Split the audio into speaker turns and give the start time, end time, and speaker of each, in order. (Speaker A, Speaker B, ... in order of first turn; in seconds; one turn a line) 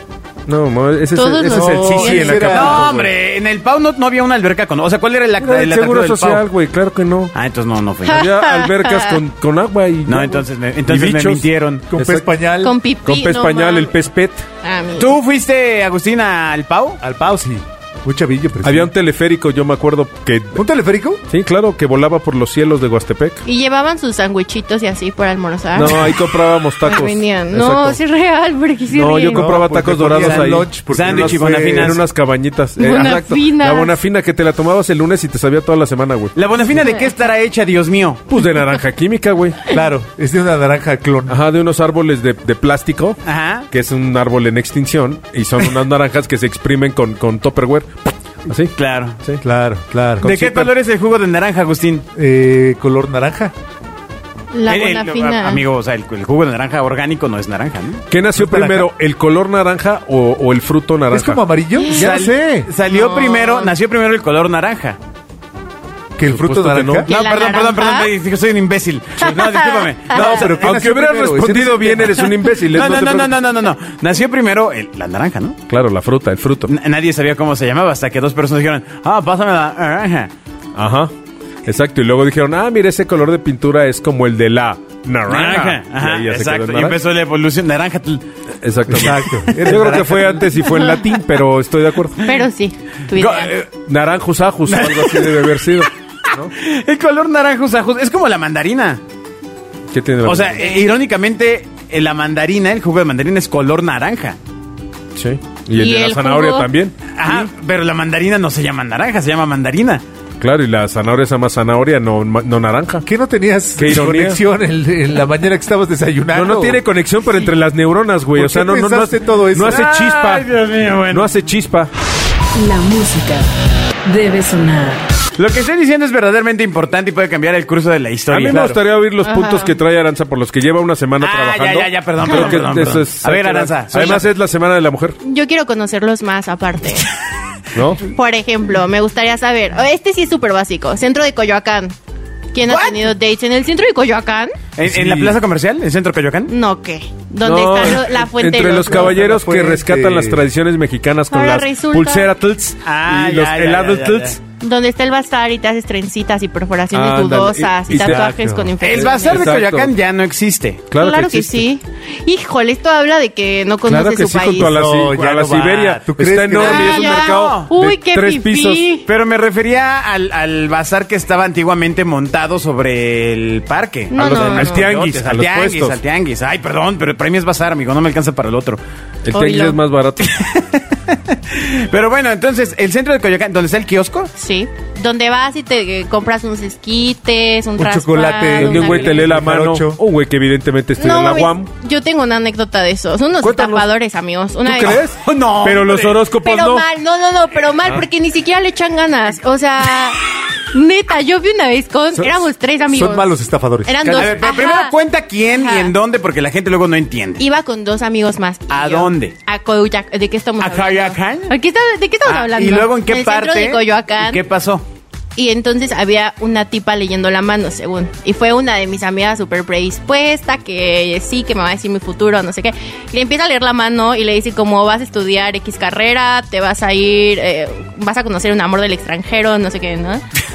Speaker A: 0.5-3.0
Speaker B: 1.1-2.6
Speaker C: 1.4-3.1
Speaker D: 2.5-6.5
Speaker A: 5.4-7.3
Speaker D: 7.3-8.2
Speaker B: 8.0-9.2
Speaker A: 8.1-11.4
Speaker D: 10.1-11.9
Speaker C: 11.9-12.8
Speaker A: 11.9-12.3
Speaker B: 12.6-13.9
Speaker A: 13.0-14.4
Speaker B: 14.6-15.1
Speaker D: 15.0-17.0
Speaker C: 17.0-18.9
Speaker A: 18.6-20.6
Speaker C: 20.5-21.2
Speaker A: 21.3-23.4
Speaker B: 23.4-29.5
Speaker A: 25.7-28.0
Speaker A: 28.9-36.3
Speaker C: 29.2-32.0
Speaker D: 30.2-32.0
Speaker B: 32.8-34.0
Speaker D: 36.3-38.2
Speaker B: 36.7-37.1
Speaker A: 38.3-39.6
Speaker C: 39.7-41.4
Speaker A: 41.3-49.4
Speaker D: 43.2-43.7
Speaker D: 48.8-49.2
Speaker C: 49.4-50.6
Speaker D: 50.2-52.0
Speaker C: 52.1-53.5
Speaker B: 54.5-55.6
Speaker D: 54.7-58.0
Speaker A: 58.1-61.4
Speaker C: 58.3-58.9
Speaker C: 61.1-62.7
Speaker B: 61.8-62.1
Speaker D: 61.9-65.0
Speaker B: 62.8-63.7
Speaker C: 66.2-67.1
Speaker A: 66.3-67.0
Speaker B: 67.0-68.1
Speaker D: 67.1-70.5
Speaker B: 69.2-70.0
Speaker C: 70.1-72.2
Speaker A: 70.1-73.3
Speaker D: 72.5-75.6
Speaker A: 75.7-76.7
Speaker D: 76.7-80.3
Speaker A: 80.7-81.1
Speaker A: 81.6-87.0
Speaker D: 85.3-88.2
Speaker A: 88.6-92.2
Speaker C: 88.9-90.6
Speaker B: 92.2-93.5
Speaker D: 93.1-93.7
Speaker A: 93.8-96.5
Speaker D: 94.7-99.0
Speaker A: 99.9-100.7
Speaker D: 100.2-104.4
Speaker A: 105.1-107.5
Speaker B: 105.7-106.7
Speaker D: 107.1-110.0
Speaker A: 110.4-113.0
Speaker C: 113.0-116.8
Speaker A: 113.8-114.4
Speaker A: 116.3-120.5
Speaker C: 118.3-119.8
Speaker D: 119.6-121.3
Speaker A: 121.1-121.9
Speaker E: 122.5-123.5
Speaker E: 124.0-125.0
Speaker D: 125.4-128.6
Speaker A: 128.3-135.2
Speaker C: 128.5-128.8
Speaker B: 129.2-129.8
Speaker D: 131.2-134.3
Speaker B: 135.2-137.1
Speaker A: 137.7-138.0
Speaker B: 138.0-141.9
Speaker B: 142.5-144.5
Speaker D: 142.7-143.1
Speaker D: 144.8-146.5
Speaker A: 144.8-145.3
Speaker B: 146.5-149.2
Speaker A: 147.4-154.4
Speaker C: 148.8-150.4
Speaker B: 151.3-152.3
Speaker D: 152.8-154.4
Speaker B: 154.6-159.5
Speaker A: 156.9-158.3
Speaker C: 157.9-158.7
Speaker D: 158.8-160.8
Speaker A: 159.0-159.9
Speaker A: 160.9-161.6
Speaker B: 161.0-164.7
Speaker A: 163.8-168.8
Speaker C: 164.6-167.0
Speaker B: 166.6-169.1
Speaker D: 166.6-167.7
Speaker D: 169.1-178.8
Speaker B: 174.1-174.9
Speaker A: 174.1-176.0
Speaker A: 179.2-180.3
Speaker B: 179.3-179.8
Speaker D: 180.2-184.3
Speaker B: 184.3-189.2
Speaker C: 187.8-190.0
Speaker A: 188.6-191.7
Speaker B: 191.0-195.0
Speaker A: 193.4-193.9
Speaker A: 194.6-196.8
Speaker D: 195.1-196.2
Speaker B: 196.4-204.9
Speaker C: 202.9-204.2
Speaker D: 204.1-207.4
Speaker B: 205.5-205.9
Speaker B: 207.4-214.4
Speaker D: 208.7-209.3
Speaker D: 210.6-211.5
Speaker D: 212.2-214.8
Speaker B: 215.3-230.2